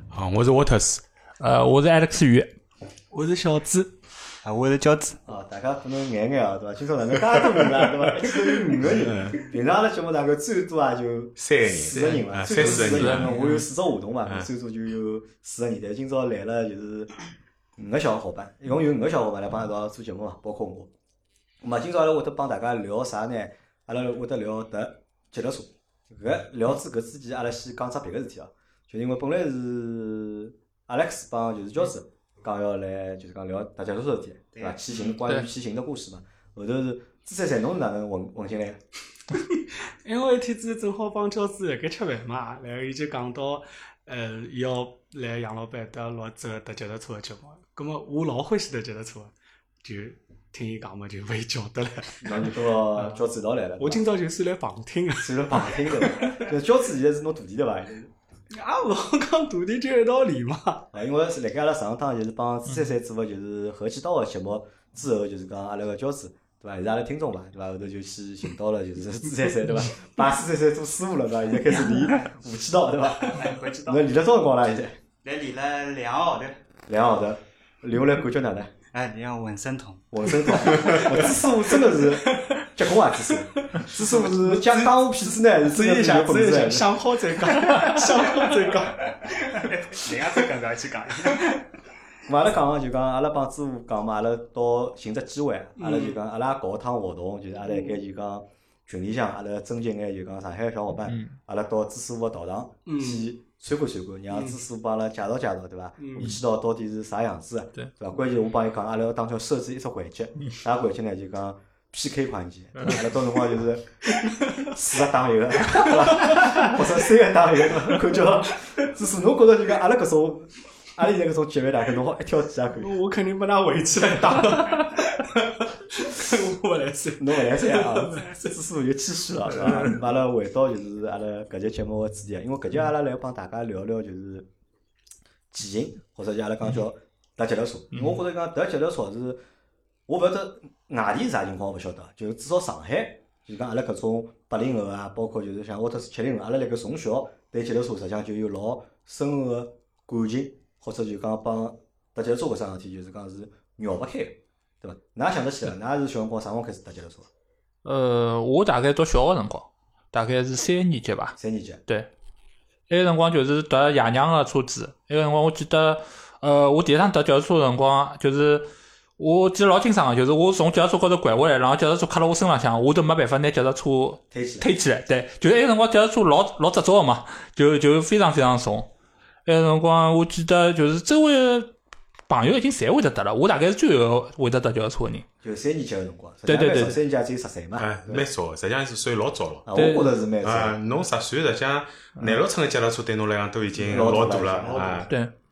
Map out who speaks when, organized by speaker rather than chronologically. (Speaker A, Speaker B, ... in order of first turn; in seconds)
Speaker A: 0.1-1.0, 8.9-9.4, 11.4-13.4, 187.8-189.7, 190.4-195.1
Speaker B: 1.4-2.5, 11.9-13.6, 101.1-101.3, 157.8-162.1, 162.9-168.7, 169.2-178.9, 179.4-181.7, 182.3-185.2, 186.4-187.0, 189.8-190.2
Speaker C: 3.1-4.0, 39.3-52.4, 53.8-56.5, 58.5-60.8, 81.9-82.6, 83.6-84.9, 85.7-90.4, 91.1-91.6, 95.8-96.2, 102.9-103.3, 104.3-104.6, 106.0-106.3, 114.2-114.7, 115.7-116.8, 122.8-128.6, 129.6-130.0
Speaker D: 4.4-5.2, 34.5-34.9, 73.3-74.0, 75.2-76.6, 78.9-81.1, 89.3-91.6
Speaker E: 5.2-17.1, 17.8-20.9, 21.6-38.8, 52.2-54.0, 55.2-58.1, 60.9-75.0, 76.9-78.7, 80.1-86.9, 92.3-114.0, 114.5-123.0, 127.2-134.5, 135.5-139.4, 140.1-157.3, 161.4-161.8, 174.3-174.7, 185.4-188.3, 189.7-190.8, 193.8-195.1